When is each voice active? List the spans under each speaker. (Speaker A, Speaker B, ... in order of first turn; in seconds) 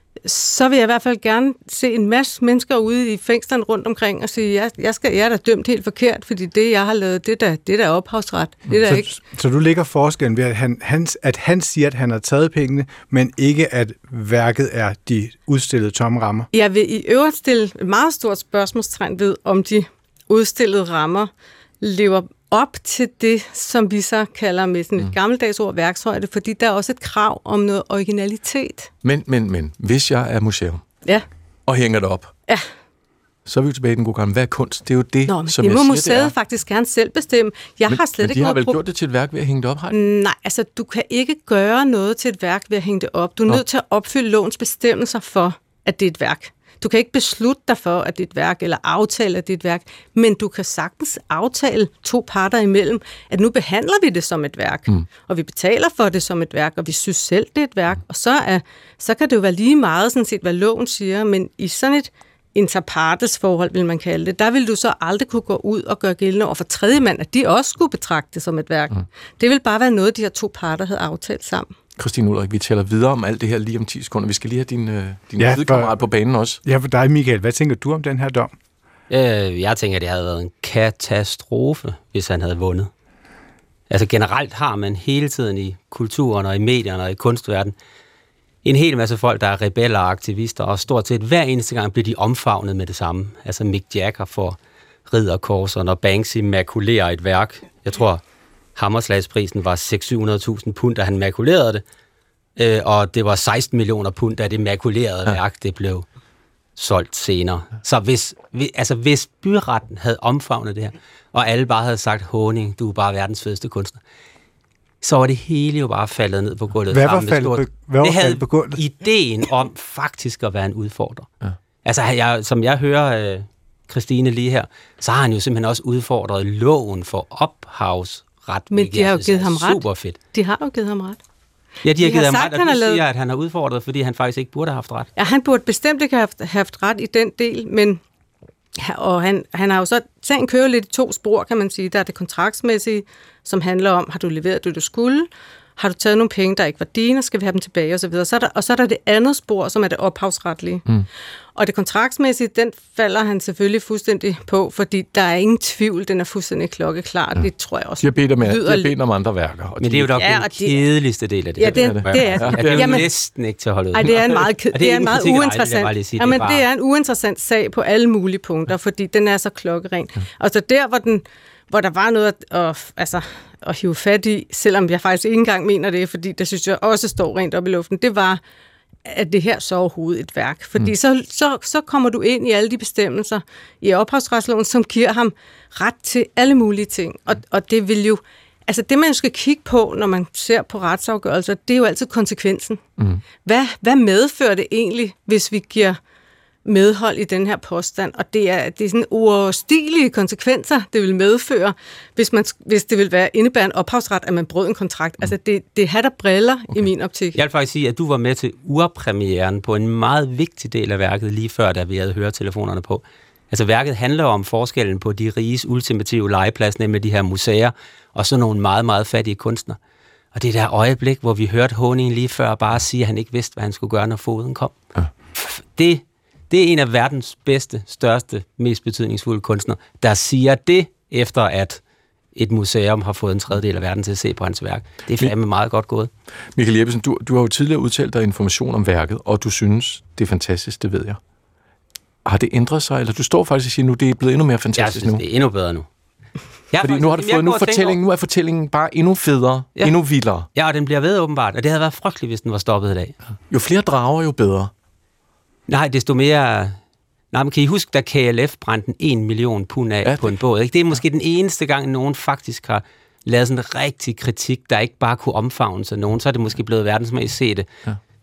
Speaker A: 0.2-9.2, 16.5-28.9, 35.2-38.8, 39.9-71.7, 128.7-131.2, 131.9-133.0, 135.2-138.0, 138.8-150.8, 151.5-158.9, 160.2-160.9, 161.6-163.3, 163.9-178.4, 179.1-192.8, 193.4-196.0, 196.6-207.4
Speaker B: 8.8-16.5, 75.4-75.9, 76.6-78.5, 116.9-118.8
Speaker C: 29.0-30.8, 31.7-32.3, 33.5-36.3, 37.9-39.9, 72.0-76.6, 157.3-160.2, 161.7-163.1, 193.0-193.2, 236.5-241.2, 242.2-245.2, 246.8-250.5, 253.5-254.7, 260.0-260.3
Speaker D: 79.1-82.9, 83.9-87.7, 88.6-94.6, 95.1-98.2, 98.8-101.8, 102.6-106.0, 106.8-114.0, 115.0-121.3, 121.8-130.2, 131.8-135.1, 159.8-166.7, 207.3-219.8, 220.3-224.7, 225.3-231.8, 232.3-236.1, 244.8-245.9, 246.7-248.0, 250.5-253.2, 255.7-256.8, 257.3-267.7